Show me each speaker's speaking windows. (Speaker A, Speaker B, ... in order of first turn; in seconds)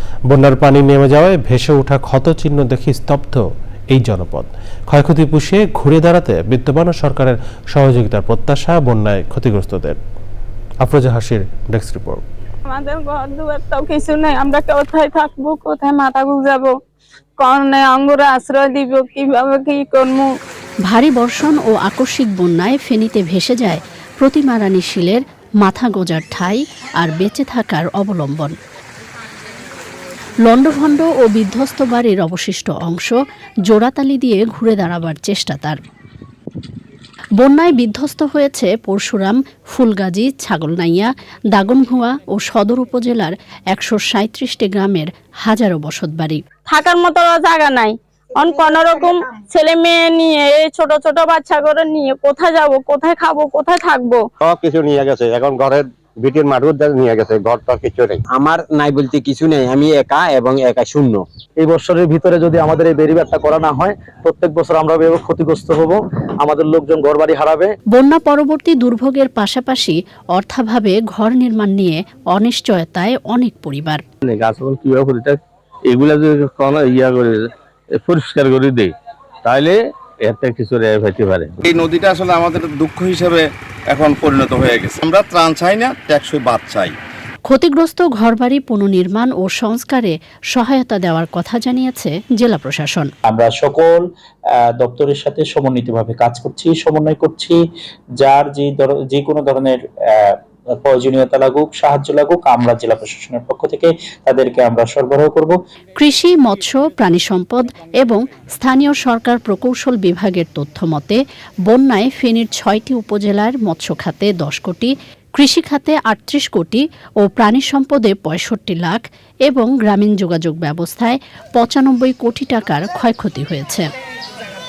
Speaker A: 0.3-10.0, 10.8-12.2
Speaker B: 12.7-16.7, 17.4-20.3, 46.7-54.2
Speaker C: 20.9-28.5, 30.4-35.8, 37.4-46.4, 67.9-74.0, 87.5-93.1, 106.0-123.9
Speaker D: 54.4-58.2
Speaker E: 58.3-61.2
Speaker F: 61.6-67.7
Speaker G: 74.2-75.4, 75.9-78.9, 79.5-81.5
Speaker H: 81.6-83.4, 83.9-86.9
Speaker I: 93.3-94.0, 94.8-97.6, 98.2-105.6